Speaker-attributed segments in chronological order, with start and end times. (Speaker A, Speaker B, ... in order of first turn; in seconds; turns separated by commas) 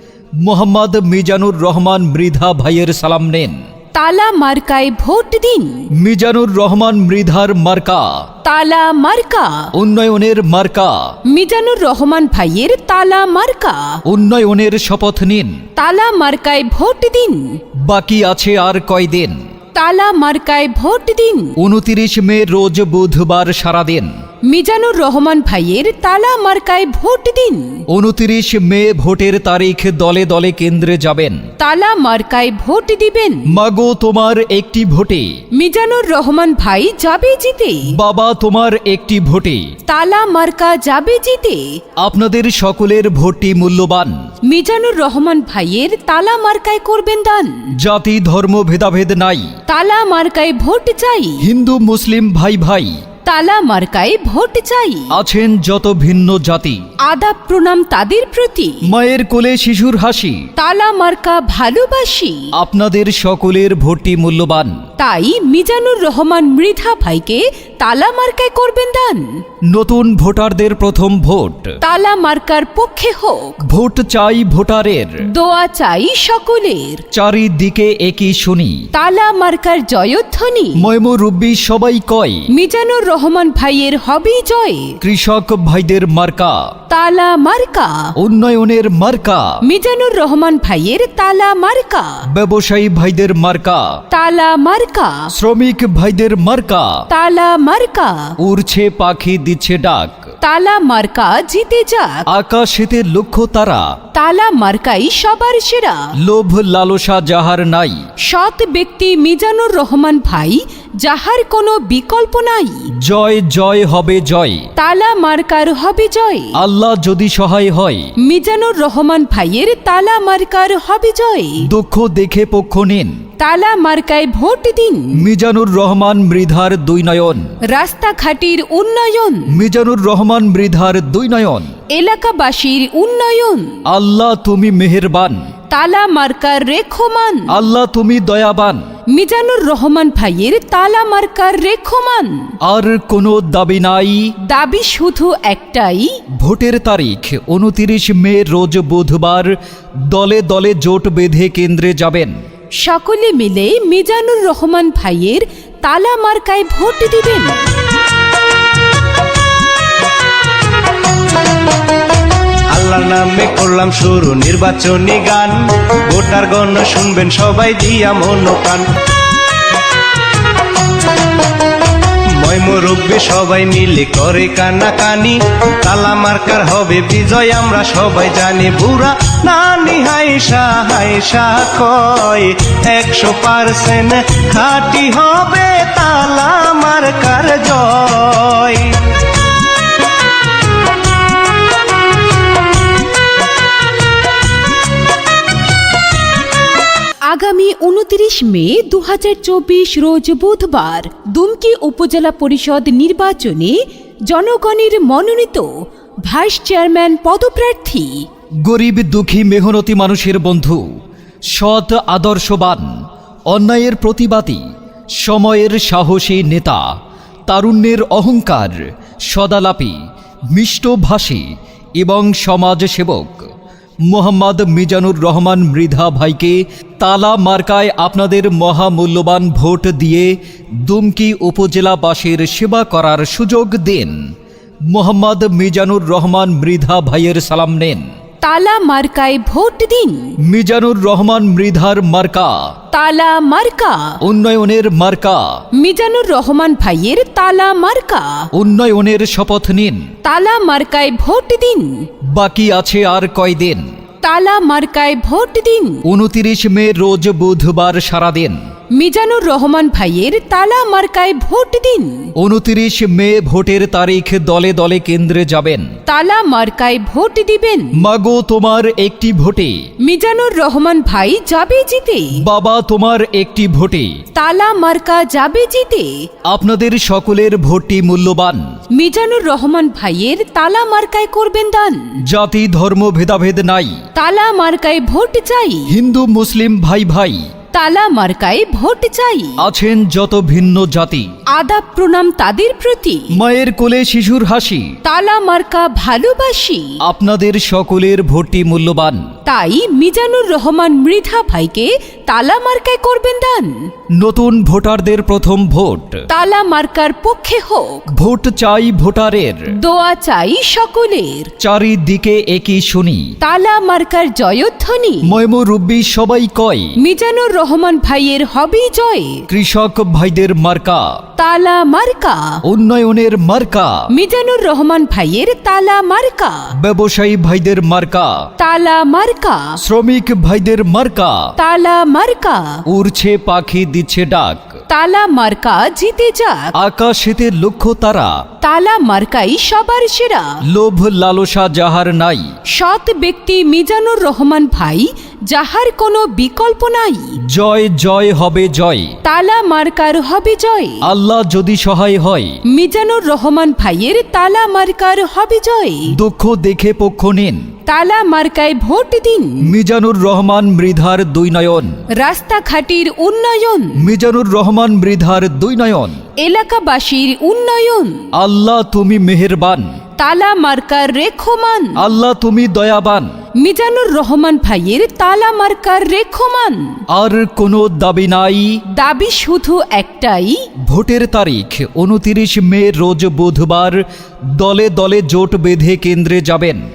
Speaker A: 0.4-3.6, Speaker B: 3.9-5.9, Speaker A: 6.0-8.3, Speaker B: 8.4-9.7, Speaker A: 9.7-11.2, Speaker B: 11.3-14.0, Speaker A: 14.1-15.6, Speaker B: 15.8-17.6, Speaker A: 17.8-19.5, Speaker B: 19.8-21.6, Speaker A: 21.6-24.2, Speaker B: 24.4-27.8, Speaker A: 27.9-31.4, Speaker B: 31.6-33.5, Speaker A: 33.5-35.4, Speaker B: 35.5-37.9, Speaker A: 37.9-39.7, Speaker B: 39.9-41.8, Speaker A: 42.0-44.2, Speaker B: 44.5-47.7, Speaker A: 47.8-49.5, Speaker B: 49.7-51.5, Speaker A: 51.4-53.0, Speaker B: 53.2-55.1, Speaker A: 55.1-56.9, Speaker B: 57.0-58.9, Speaker A: 58.9-60.5, Speaker B: 60.6-62.5, Speaker A: 62.5-64.8, Speaker B: 65.0-69.4, Speaker A: 69.7-71.8, Speaker B: 71.8-73.6, Speaker A: 73.6-75.3, Speaker B: 75.2-77.0, Speaker A: 77.1-78.9, Speaker B: 78.9-80.9, Speaker A: 80.8-82.5, Speaker B: 82.5-85.0, Speaker A: 85.0-86.7, Speaker B: 86.9-88.2, Speaker A: 88.2-89.6, Speaker B: 89.6-92.2, Speaker A: 92.3-94.0, Speaker B: 94.1-95.3, Speaker A: 95.3-97.1, Speaker B: 97.1-98.4, Speaker A: 98.4-100.3, Speaker B: 100.4-102.2, Speaker A: 102.3-104.0, Speaker B: 104.1-106.1, Speaker A: 106.2-108.1, Speaker B: 108.2-112.9, Speaker A: 113.0-114.7, Speaker B: 114.8-116.6, Speaker A: 116.6-118.1, Speaker B: 118.2-121.7, Speaker A: 121.6-123.2, Speaker B: 123.4-125.3, Speaker A: 125.1-127.6, Speaker B: 127.7-129.6, Speaker A: 129.5-131.8, Speaker B: 131.9-133.8, Speaker A: 133.9-135.5, Speaker B: 135.7-137.5, Speaker A: 137.5-138.9, Speaker B: 139.1-142.6, Speaker A: 142.6-144.3, Speaker B: 144.4-146.2, Speaker A: 146.4-152.4, Speaker B: 152.8-157.7, Speaker C: 162.7-168.9, Speaker C: 172.3-189.0, Speaker B: 197.2-208.3, Speaker A: 208.6-211.0, Speaker A: 211.5-223.5, Speaker A: 224.1-234.3, Speaker A: 234.9-238.1, Speaker B: 238.4-240.3, Speaker A: 240.4-242.8, Speaker B: 242.9-244.2, Speaker A: 244.2-245.6, Speaker B: 245.8-248.5, Speaker A: 248.5-250.1, Speaker B: 250.2-252.1, Speaker A: 252.3-253.9, Speaker B: 254.2-256.0, Speaker A: 256.1-258.7, Speaker B: 258.9-262.3, Speaker A: 262.4-265.9, Speaker B: 266.1-267.9, Speaker A: 268.0-269.9, Speaker B: 270.0-272.4, Speaker A: 272.4-274.2, Speaker B: 274.3-276.3, Speaker A: 276.5-278.8, Speaker B: 278.9-282.2, Speaker A: 282.2-284.0, Speaker B: 284.1-285.9, Speaker A: 285.9-287.5, Speaker B: 287.7-289.6, Speaker A: 289.6-291.3, Speaker B: 291.5-293.4, Speaker A: 293.3-295.0, Speaker B: 295.0-297.0, Speaker A: 297.0-299.3, Speaker B: 299.4-303.9, Speaker A: 304.1-306.3, Speaker B: 306.3-308.1, Speaker A: 308.1-309.7, Speaker B: 309.7-311.5, Speaker A: 311.6-313.4, Speaker B: 313.4-315.3, Speaker A: 315.2-317.0, Speaker B: 317.0-319.4, Speaker A: 319.5-321.2, Speaker B: 321.4-322.6, Speaker A: 322.6-324.1, Speaker B: 324.1-326.7, Speaker A: 326.8-328.5, Speaker B: 328.6-329.8, Speaker A: 329.8-331.5, Speaker B: 331.6-332.8, Speaker A: 332.9-334.8, Speaker B: 334.9-336.7, Speaker A: 336.8-338.4, Speaker B: 338.6-340.6, Speaker A: 340.7-342.6, Speaker B: 342.7-347.4, Speaker A: 347.4-349.2, Speaker B: 349.2-351.1, Speaker A: 351.0-352.6, Speaker B: 352.7-356.2, Speaker A: 356.1-357.7, Speaker B: 357.9-359.7, Speaker A: 359.6-362.0, Speaker B: 362.1-364.1, Speaker A: 364.0-366.2, Speaker B: 366.4-368.3, Speaker A: 368.3-370.0, Speaker B: 370.2-372.0, Speaker A: 372.0-373.4, Speaker B: 373.6-377.0, Speaker A: 377.1-378.8, Speaker B: 378.9-380.7, Speaker A: 380.8-386.9